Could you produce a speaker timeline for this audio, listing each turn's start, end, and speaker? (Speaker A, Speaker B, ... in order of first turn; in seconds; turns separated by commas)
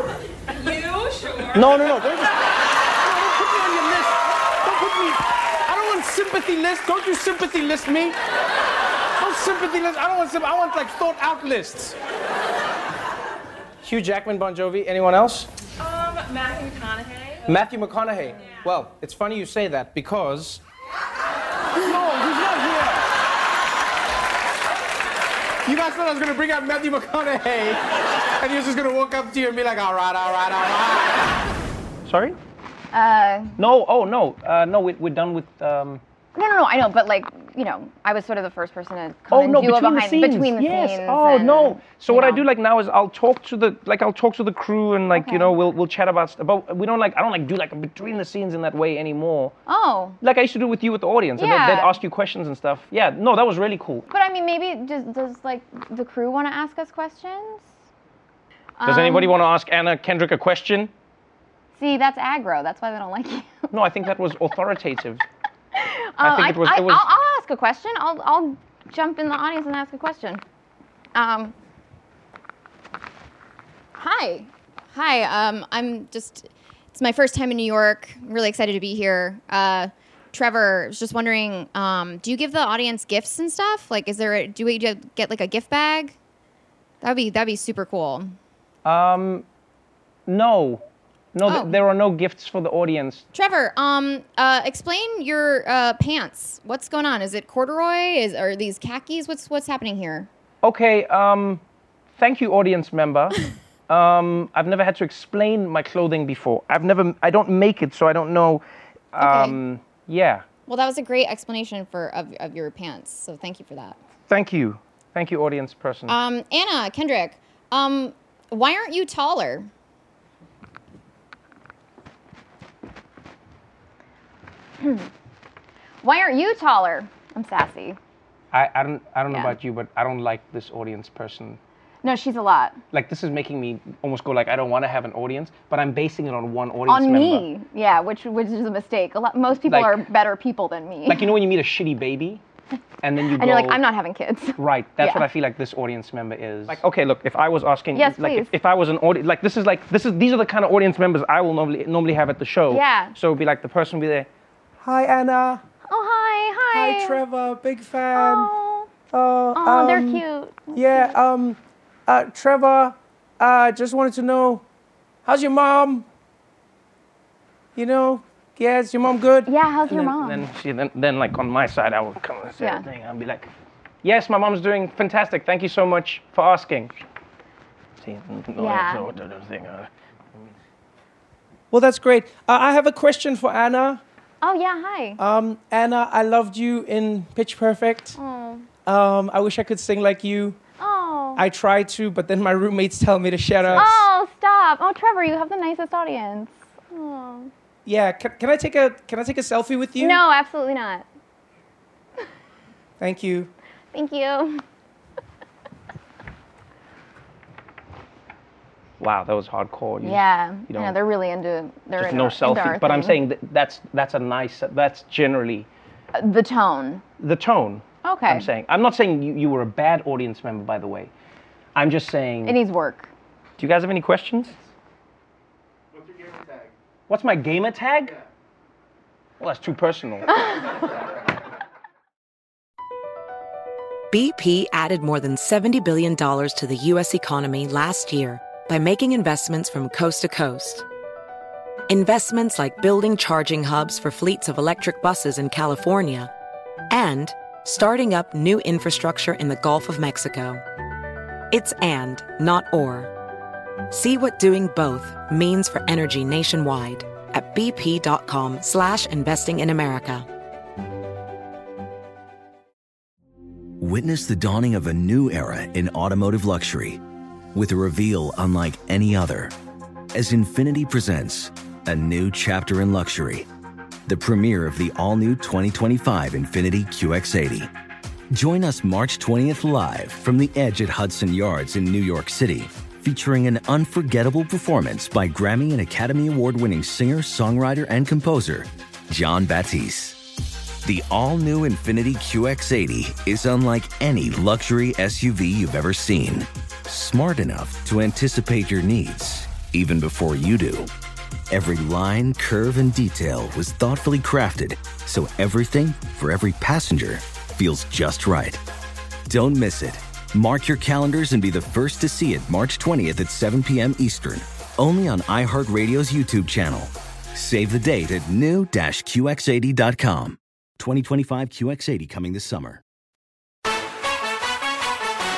Speaker A: 0.6-1.7, Speaker B: 1.5-8.1, Speaker B: 9.2-11.9, Speaker B: 13.8-15.5, Speaker A: 15.8-17.4, Speaker B: 17.4-20.6, Speaker B: 21.8-23.1, Speaker B: 25.6-27.8, Speaker B: 28.4-31.2, Speaker B: 32.0-32.4, Speaker C: 32.9-33.6, Speaker B: 33.6-36.0, Speaker C: 36.3-42.4, Speaker B: 39.3-49.5, Speaker C: 45.1-45.5, Speaker C: 49.6-50.2, Speaker B: 50.2-54.1, Speaker C: 51.4-52.0, Speaker C: 54.1-57.6, Speaker C: 58.8-59.3, Speaker B: 58.9-60.9, Speaker C: 61.8-63.7, Speaker B: 63.7-65.2, Speaker C: 65.7-70.4, Speaker B: 66.2-67.0, Speaker C: 71.1-71.5, Speaker C: 74.0-86.2, Speaker C: 87.0-88.3, Speaker B: 88.8-89.4, Speaker B: 90.3-90.8, Speaker B: 91.3-93.2, Speaker C: 91.5-91.7, Speaker C: 93.3-100.3, Speaker B: 100.6-101.6, Speaker B: 102.1-110.4, Speaker C: 109.2-109.6, Speaker C: 110.7-114.0, Speaker B: 114.3-116.2, Speaker C: 116.1-119.7, Speaker C: 124.8-125.1, Speaker C: 126.0-128.0, Speaker B: 128.5-131.6, Speaker C: 132.0-132.8, Speaker B: 132.9-137.5, Speaker C: 136.9-141.3, Speaker B: 139.7-140.0, Speaker B: 141.1-142.4, Speaker B: 143.0-143.8, Speaker C: 143.2-145.2, Speaker B: 144.6-154.3, Speaker C: 147.9-148.5, Speaker C: 152.7-153.1, Speaker B: 154.8-155.6, Speaker C: 155.9-157.2, Speaker B: 156.7-158.5, Speaker C: 158.1-158.9, Speaker B: 159.1-164.6, Speaker C: 159.6-161.1, Speaker B: 165.2-166.0, Speaker B: 167.7-173.5, Speaker C: 169.4-170.4, Speaker C: 172.6-172.8, Speaker B: 174.0-177.0, Speaker B: 178.0-180.4, Speaker C: 178.6-179.1, Speaker B: 181.7-184.0, Speaker C: 184.4-185.2, Speaker B: 185.2-188.2, Speaker C: 188.2-188.7, Speaker B: 188.8-190.6, Speaker C: 190.8-191.4, Speaker B: 191.3-194.0, Speaker C: 193.7-197.5, Speaker B: 197.8-200.2, Speaker C: 200.0-201.1, Speaker B: 203.0-203.5, Speaker C: 203.9-204.6, Speaker B: 209.0-210.9, Speaker C: 210.0-213.2, Speaker B: 212.0-215.7, Speaker C: 216.1-217.0, Speaker B: 217.2-221.1, Speaker C: 218.0-218.5, Speaker B: 221.7-222.6, Speaker C: 222.4-223.1, Speaker B: 223.6-224.6, Speaker B: 227.1-228.2, Speaker B: 229.4-230.6, Speaker D: 234.1-240.8, Speaker D: 241.9-246.3, Speaker D: 246.9-250.6, Speaker D: 251.5-253.1, Speaker D: 253.9-260.3, Speaker E: 263.8-267.0, Speaker E: 267.5-269.5, Speaker E: 270.1-273.5, Speaker E: 274.1-277.7, Speaker E: 278.3-290.2, Speaker E: 290.8-300.9, Speaker E: 301.5-308.6, Speaker E: 309.3-322.8